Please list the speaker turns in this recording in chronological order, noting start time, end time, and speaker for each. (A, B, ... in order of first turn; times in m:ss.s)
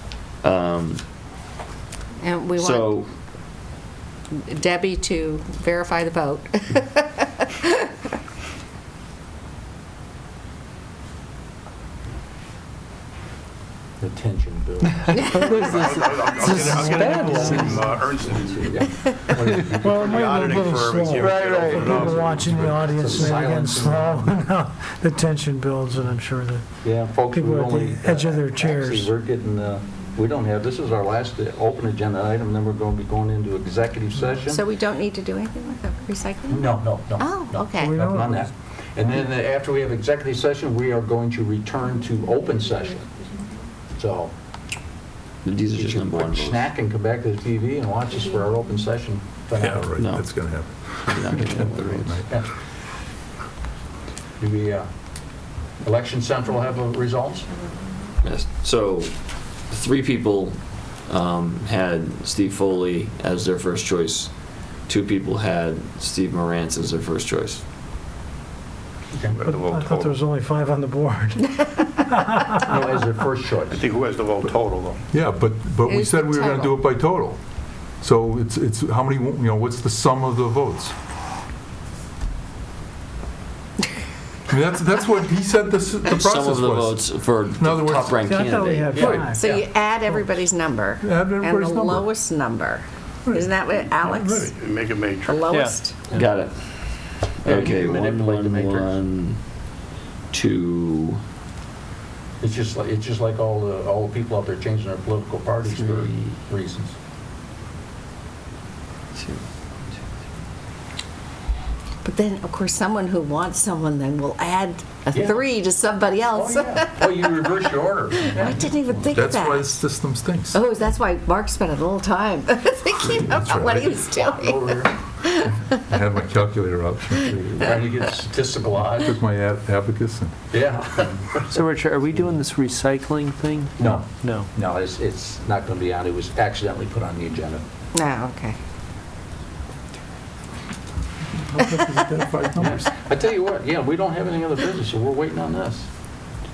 0:00.4-0:01.0 A
0:02.2-0:03.0 B
0:02.6-0:03.1 A
0:04.3-0:07.8 B
0:14.0-0:15.8 C
0:15.4-0:18.8 D
0:15.8-0:17.8 E
0:16.4-0:20.8 C
0:19.7-0:29.1 E
0:19.8-0:23.3 D
0:21.6-0:24.5 C
0:26.8-0:34.6 C
0:34.5-0:38.0 B
0:36.5-0:43.1 C
0:37.8-0:38.4 E
0:44.0-0:44.3 C
0:45.4-0:46.7 A
0:45.7-0:50.0 C
0:49.6-0:52.4 F
0:50.0-0:50.5 A
0:51.1-0:52.2 A
0:54.4-0:54.9 C
0:55.8-0:57.5 C
0:58.2-1:04.3 A
1:04.9-1:07.6 A
1:09.1-1:09.4 C
1:09.3-1:10.2 D
1:09.4-1:12.6 E
1:12.6-1:13.9 C
1:13.7-1:15.0 D
1:15.1-1:17.4 F
1:15.9-1:16.8 B
1:18.0-1:20.9 F
1:24.5-1:29.4 F
1:26.1-1:29.2 A
1:28.3-1:29.4 E
1:28.9-1:29.7 C
1:29.3-1:34.5 B
1:31.0-1:32.1 F
1:33.3-1:34.5 F
1:34.4-1:35.5 D
1:35.2-1:36.1 B
1:35.5-1:35.8 G
1:36.1-1:36.8 A
1:37.4-1:39.0 C
1:37.4-1:39.4 A
1:40.3-1:41.2 A
1:42.4-1:47.0 C
1:45.7-1:46.1 A
1:49.2-1:49.4 A
1:52.0-1:57.4 B
1:55.1-1:55.4 C
1:56.3-1:59.1 C
1:58.3-1:59.8 B
1:59.1-2:00.6 F
2:00.5-2:05.6 B
2:03.0-2:04.0 F
2:04.2-2:05.0 C
2:05.7-2:07.8 F
2:07.6-2:09.1 C
2:08.9-2:10.5 F
2:10.5-2:11.6 C
2:11.5-2:13.7 G
2:13.8-2:17.6 C
2:17.9-2:18.6 B
2:21.5-2:22.9 F
2:22.6-2:25.9 C